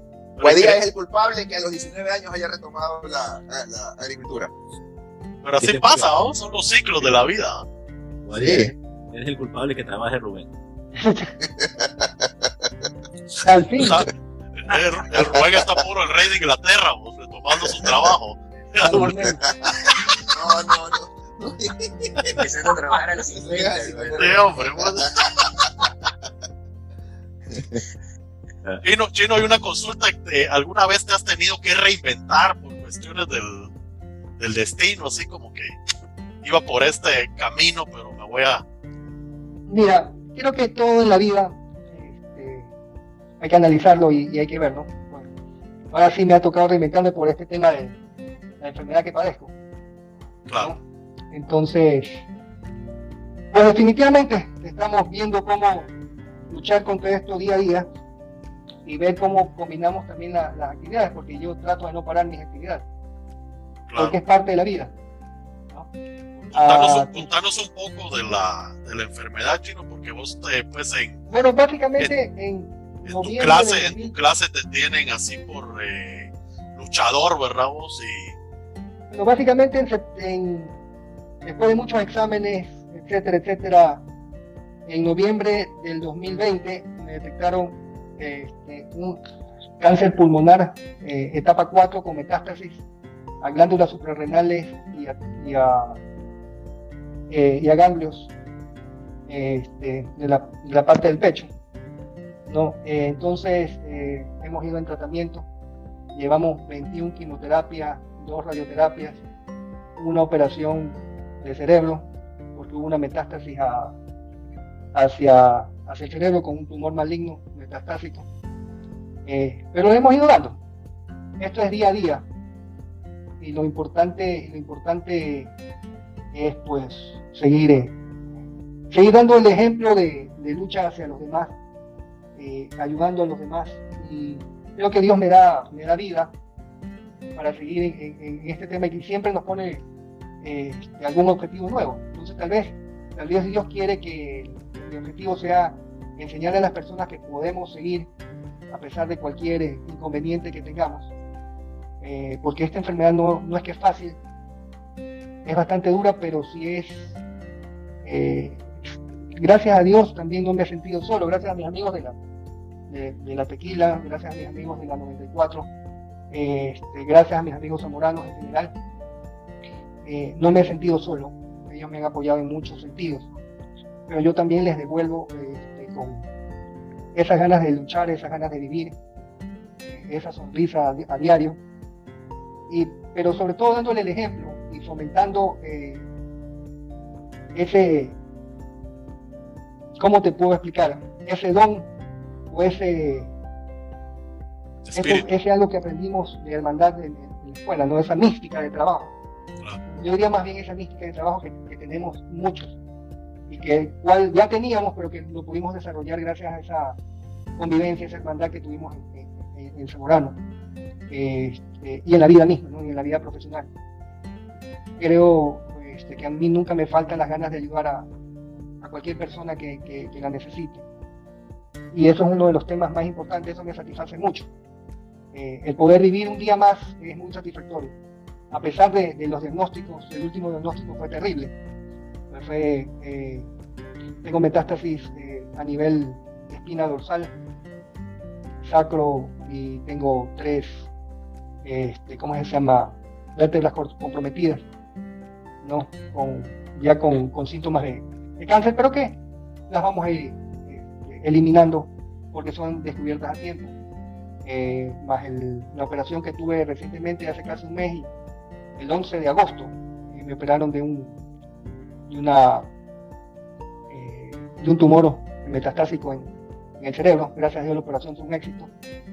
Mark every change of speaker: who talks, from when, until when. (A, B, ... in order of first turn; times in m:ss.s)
0:00.4-0:00.8 A
0:00.4-0:04.5 B
0:05.4-0:07.6 A
0:05.6-0:06.1 C
0:08.2-0:10.5 C
0:08.3-0:08.7 B
0:11.0-0:11.3 D
0:11.4-0:12.7 B
0:13.4-0:14.0 D
0:13.8-0:19.9 A
0:15.2-0:15.7 B
0:17.8-0:18.1 B
0:18.8-0:19.4 D
0:19.0-0:19.5 B
0:20.3-0:22.3 B
0:22.3-0:24.7 E
0:23.3-0:25.0 B
0:24.2-0:25.5 A
0:27.5-0:27.8 B
0:28.8-0:33.7 A
0:34.4-0:35.8 A
0:36.4-0:38.6 A
0:39.7-0:42.7 D
0:43.4-0:45.3 D
0:45.9-0:48.0 D
0:48.6-0:49.5 D
0:51.3-0:52.2 D
0:53.5-0:55.9 D
0:56.5-0:57.9 D
0:58.8-1:02.8 D
1:03.9-1:04.2 A
1:04.0-1:04.9 D
1:06.4-1:11.2 A
1:06.5-1:07.3 D
1:11.3-1:14.1 D
1:13.0-1:18.3 A
1:19.1-1:20.8 D
1:21.4-1:24.0 D
1:24.9-1:29.2 D
1:29.8-1:32.8 D
1:33.4-1:36.0 D
1:37.3-1:38.3 D
1:39.3-1:41.5 D
1:42.5-1:45.4 D
1:46.1-1:49.2 D
1:50.0-1:53.9 D
1:54.9-1:58.2 D
1:59.2-2:00.6 D
2:01.4-2:02.2 D
2:03.4-2:05.5 D
2:06.3-2:07.9 D
2:08.9-2:11.5 D
2:12.4-2:16.3 D
2:17.3-2:19.8 D
2:20.4-2:28.1 D
2:28.7-2:31.1 D
2:32.0-2:34.2 D
2:35.4-2:37.1 D
2:38.0-2:42.2 D
2:42.9-2:45.7 D
2:46.3-2:48.7 D
2:50.0-2:53.3 D
2:54.1-2:56.2 D
2:57.1-2:58.9 D
2:59.9-3:01.6 D
3:02.7-3:06.0 D
3:07.5-3:08.2 D
3:10.0-3:11.9 D
3:12.5-3:13.3 D
3:14.8-3:15.3 A
3:14.9-3:19.1 D
3:19.9-3:22.7 D
3:23.5-3:27.0 D
3:27.6-3:30.4 D
3:31.1-3:33.7 D
3:35.0-3:38.1 D
3:38.8-3:40.8 D
3:41.9-3:44.5 D
3:45.3-3:47.9 D
3:48.5-3:51.5 D
3:52.3-3:53.5 D
3:54.2-3:57.3 D
3:58.6-4:00.9 D
4:01.6-4:04.6 D
4:05.6-4:13.7 D
4:14.4-4:18.1 D
4:18.8-4:21.2 D
4:22.1-4:22.7 D
4:23.9-4:28.7 D